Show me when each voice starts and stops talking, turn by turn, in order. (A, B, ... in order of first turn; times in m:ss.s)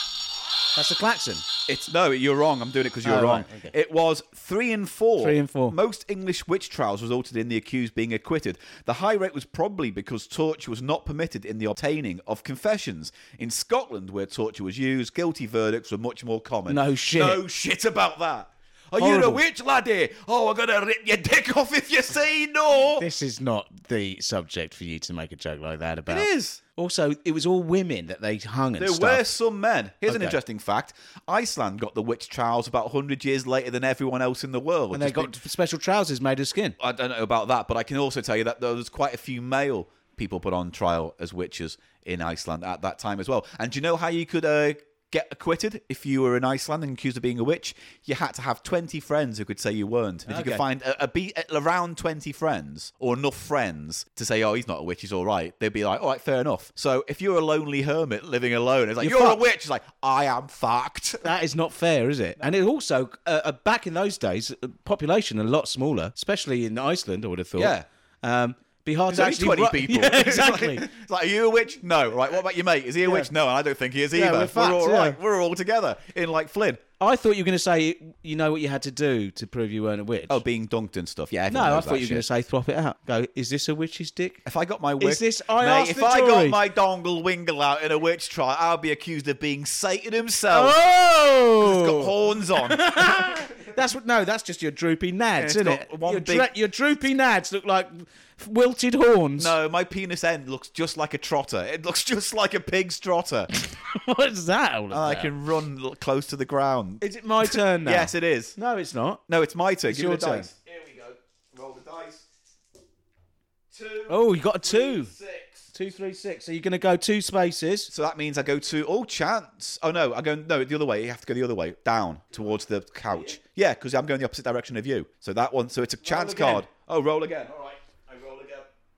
0:00.8-0:01.4 A
0:01.7-0:23.1 B
0:03.0-0:03.7 A
0:05.2-0:05.8 A
0:16.7-0:17.4 A
0:19.0-0:19.4 A
0:23.0-0:29.3 A
0:26.1-0:26.6 B
0:28.8-0:35.3 B
0:30.1-0:30.4 A
0:34.9-0:36.8 A
0:36.8-1:01.3 B
0:50.3-0:50.6 A
0:59.0-0:59.4 A
1:01.2-1:10.9 A
1:07.6-1:07.9 B
1:09.1-1:16.8 B
1:13.0-1:13.3 A
1:14.1-1:15.2 A
1:17.0-1:20.4 A
1:20.3-1:22.2 B
1:21.5-1:24.4 A
1:24.4-1:30.8 B
1:25.0-1:26.6 A
1:30.5-1:39.6 A
1:31.6-1:33.4 B
1:35.4-1:36.5 B
1:39.4-1:43.5 B
1:43.5-1:45.3 A
1:44.9-1:48.6 B
1:47.0-1:49.2 A
1:49.3-1:52.3 B
1:49.9-1:50.5 A
1:53.7-1:55.7 B
1:54.1-1:55.1 A
1:55.7-1:57.9 A
1:57.9-2:08.7 B
2:03.1-2:03.4 A
2:06.0-2:06.7 A